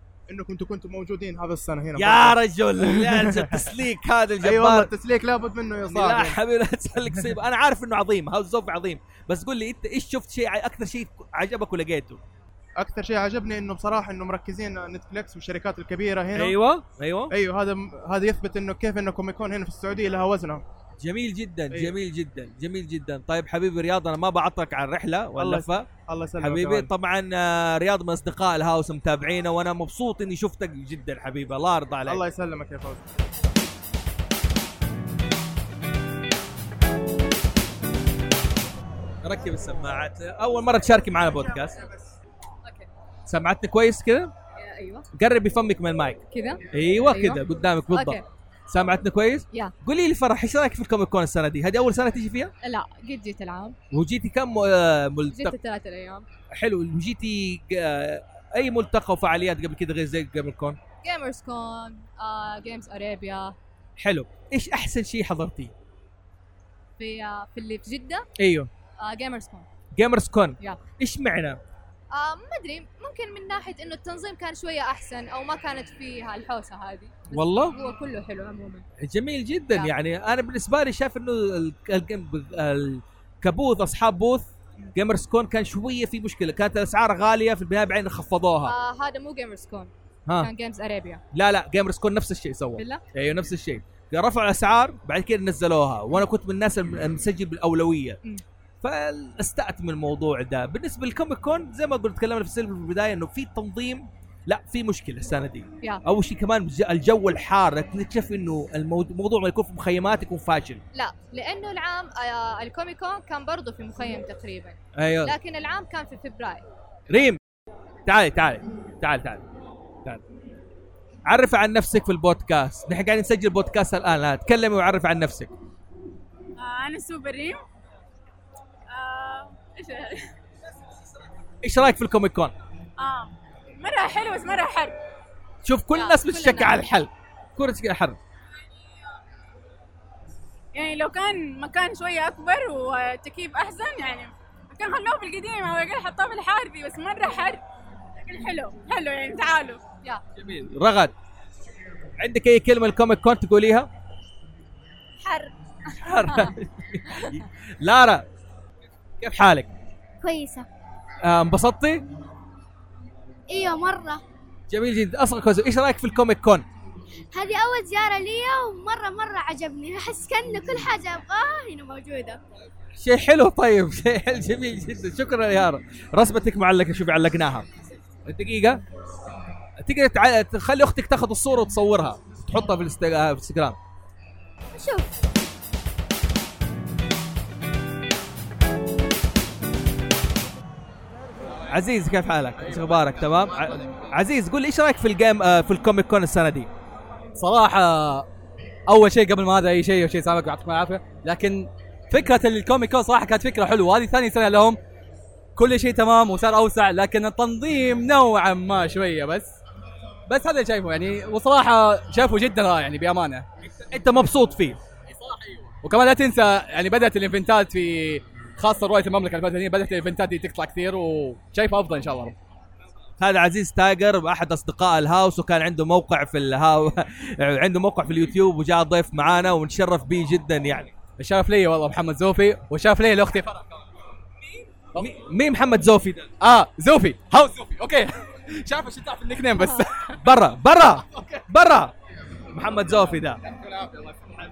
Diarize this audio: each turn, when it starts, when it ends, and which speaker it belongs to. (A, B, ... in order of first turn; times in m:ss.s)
0:00.3-0:03.7 A
0:01.9-0:04.9 B
0:04.4-0:06.4 A
0:05.8-0:12.2 B
0:12.8-0:16.6 A
0:16.3-0:17.3 B
0:17.3-0:20.6 A
0:21.0-0:32.3 B
0:21.7-0:22.0 A
0:25.4-0:26.9 A
0:32.1-0:33.0 A
0:39.2-0:41.8 B
0:43.3-0:44.3 B
0:44.6-0:45.1 C
0:45.1-0:52.5 B
0:46.3-0:48.2 C
0:52.6-0:53.8 C
0:53.9-0:55.6 B
0:55.3-0:56.3 C
0:56.5-1:00.8 B
1:01.0-1:03.6 C
1:04.0-1:05.7 B
1:07.0-1:08.3 C
1:08.4-1:08.7 B
1:09.0-1:09.6 C
1:09.9-1:11.6 B
1:12.1-1:18.8 C
1:17.3-1:17.7 B
1:19.0-1:28.7 B
1:28.6-1:31.2 C
1:31.3-1:38.2 B
1:32.8-1:33.0 C
1:38.8-1:50.8 B
1:50.9-1:56.6 C
1:55.0-1:55.3 B
1:57.1-1:57.4 B
1:58.0-1:59.4 B
2:01.2-2:05.5 B
2:06.6-2:07.6 D
2:08.9-2:10.3 D
2:11.6-2:12.5 B
2:13.0-2:15.0 D
2:15.6-2:18.2 B
2:15.9-2:16.9 C
2:20.7-2:27.6 D
2:28.2-2:29.8 D
2:30.4-2:31.1 B
2:32.2-2:33.9 B
2:35.2-2:35.5 D
2:36.0-2:38.2 B
2:36.2-2:36.5 C
2:39.2-2:39.7 B
2:40.2-2:40.7 E
2:41.2-2:42.0 B
2:43.5-2:44.2 E
2:44.7-2:46.6 B
2:47.3-2:52.4 E
2:53.0-2:57.6 B
2:58.2-2:58.8 B
2:59.8-3:03.8 B
3:04.7-3:05.1 E
3:11.7-3:16.7 B
3:17.4-3:18.2 F
3:18.9-3:24.8 F
3:25.6-3:29.5 F
3:30.3-3:33.4 F
3:33.8-3:34.8 B
3:35.2-3:42.4 F
3:43.2-3:51.0 B
3:51.2-3:53.7 F
3:54.9-3:56.3 B
3:56.4-4:00.1 F
4:00.2-4:01.9 B
4:02.5-4:03.4 B
4:03.6-4:04.1 F